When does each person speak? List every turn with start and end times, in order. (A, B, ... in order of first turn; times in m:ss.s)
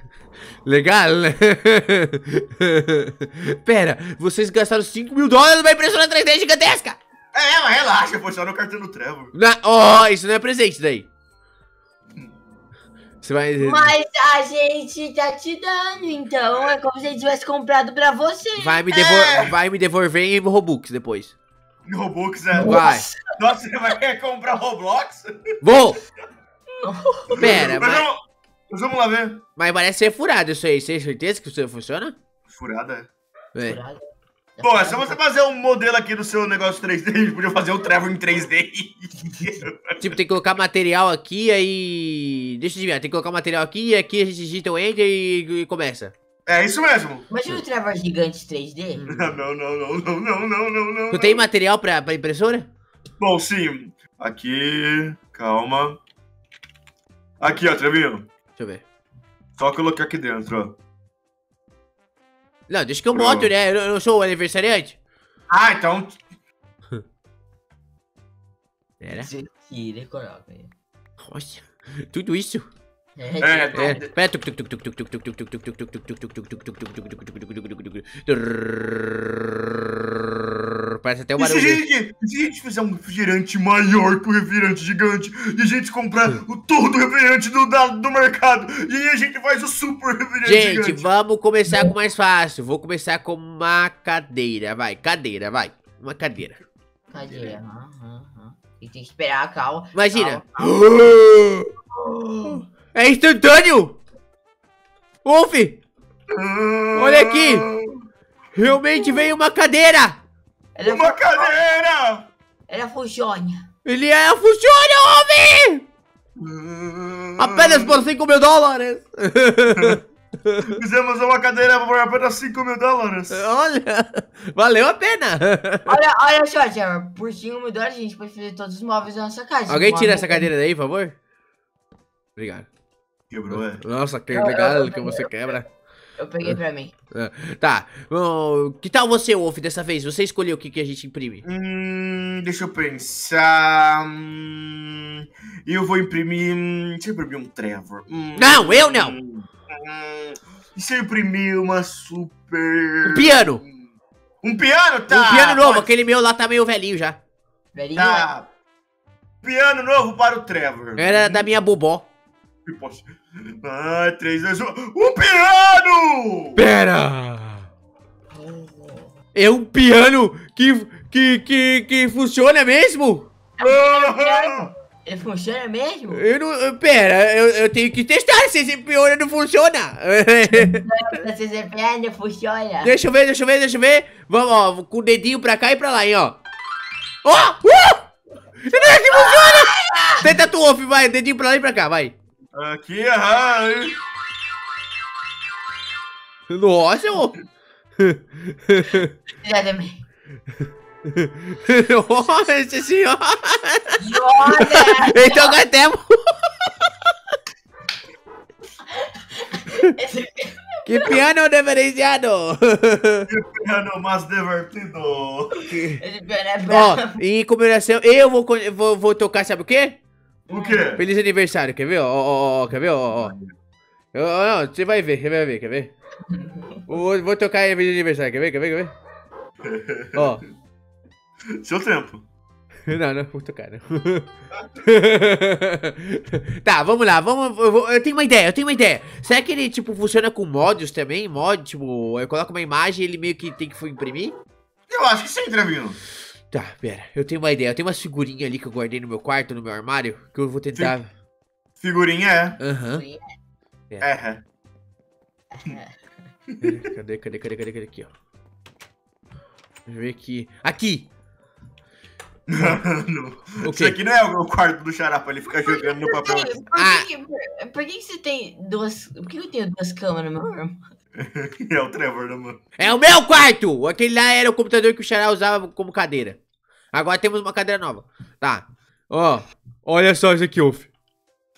0:00.6-0:07.0 A
0:07.3-0:09.3 B
0:09.3-0:11.1 A
0:13.2-0:13.9 A
0:13.6-0:18.8 C
0:18.6-0:21.3 A
0:18.9-0:19.6 B
0:21.8-0:22.8 B
0:22.5-0:23.3 C
0:22.6-0:23.1 A
0:23.4-0:25.3 B
0:25.6-0:26.0 A
0:26.8-0:27.5 C
0:27.3-0:28.0 A
0:27.4-0:29.4 B
0:29.6-0:32.1 A
0:32.5-0:33.1 B
0:33.6-0:34.0 C
0:34.6-0:35.2 C
0:34.6-0:40.0 B
0:40.0-0:46.1 A
0:46.5-0:47.2 B
0:47.3-0:49.0 C
0:49.0-0:49.3 A
0:49.1-0:51.4 B
0:51.1-0:52.7 A
0:53.2-0:56.0 B
0:57.4-0:58.3 B
0:58.6-0:58.8 A
0:59.6-1:00.7 B
1:02.7-1:05.0 A
1:03.1-1:03.5 B
1:05.5-1:06.2 B
1:09.0-1:09.3 A
1:09.2-1:10.7 C
1:11.2-1:12.6 A
1:13.2-1:14.0 C
1:13.4-1:14.1 B
1:13.7-1:19.9 A
1:21.0-1:21.8 A
1:21.4-1:31.1 B
1:30.4-1:36.6 A
1:37.1-1:40.6 C
1:39.9-1:41.7 A
1:42.4-1:44.0 A
1:45.2-1:45.8 A
1:46.3-1:48.0 B
1:46.9-1:47.7 A
1:48.5-1:50.2 A
1:50.7-1:51.5 C
1:50.8-1:52.3 B
1:52.7-1:53.6 C
1:53.8-1:55.8 A
1:56.4-1:58.0 B
1:57.4-2:00.6 A
2:00.6-2:03.4 B
2:03.3-2:05.9 A
2:05.8-2:10.5 C
2:09.7-2:11.1 A
2:12.4-2:12.7 A
2:13.3-2:13.8 B
2:13.5-2:15.7 A
2:14.3-2:15.3 C
2:16.2-2:16.9 C
2:17.1-2:21.4 A
2:21.4-2:35.9 B
2:28.4-2:29.1 A
2:33.0-2:33.6 A
2:35.1-2:37.2 A
2:37.7-2:38.3 C
2:37.9-2:38.5 B
2:39.4-2:41.5 B
2:41.0-2:42.1 A
2:42.6-2:43.1 B
2:43.6-2:46.6 B
2:46.6-2:47.7 A
2:48.4-2:49.1 C
2:49.3-2:53.3 A
2:53.6-2:56.2 C
2:53.6-2:54.7 B
2:56.1-3:00.8 A
3:00.5-3:02.9 C
3:02.8-3:06.4 A
3:07.2-3:08.1 A
3:08.6-3:12.1 A
3:09.1-3:10.2 C
3:12.5-3:14.0 B
3:16.5-3:17.4 A
3:18.0-3:19.1 A
3:19.4-3:20.0 C
3:21.2-3:26.9 A
3:24.0-3:25.6 C
3:29.0-3:31.1 C
3:30.8-3:33.2 A
3:33.3-3:35.6 B
3:35.7-3:36.0 A
3:35.9-3:37.2 C
3:36.7-3:40.0 A
3:40.5-3:41.0 C
3:40.5-3:41.0 B
3:41.0-3:43.3 A
3:43.2-3:43.5 B
3:44.1-3:45.9 A
3:46.3-3:46.8 C
3:46.9-3:48.9 A
3:49.6-3:50.3 B
3:50.1-3:50.4 A
3:51.6-3:52.2 B
3:52.9-3:54.3 A
3:54.8-4:04.3 A
4:04.9-4:06.0 B
4:06.5-4:11.1 A
4:11.8-4:12.6 B
4:12.6-4:13.0 A
4:12.9-4:13.2 C
4:14.0-4:14.4 B
4:15.5-4:15.9 C
4:16.6-4:18.1 A
4:19.9-4:21.1 A
4:22.5-4:26.6 B
4:23.6-4:24.0 A
4:25.6-4:30.8 C
4:26.8-4:27.1 A
4:31.2-4:32.6 B
4:32.8-4:36.4 A
4:36.9-4:40.9 A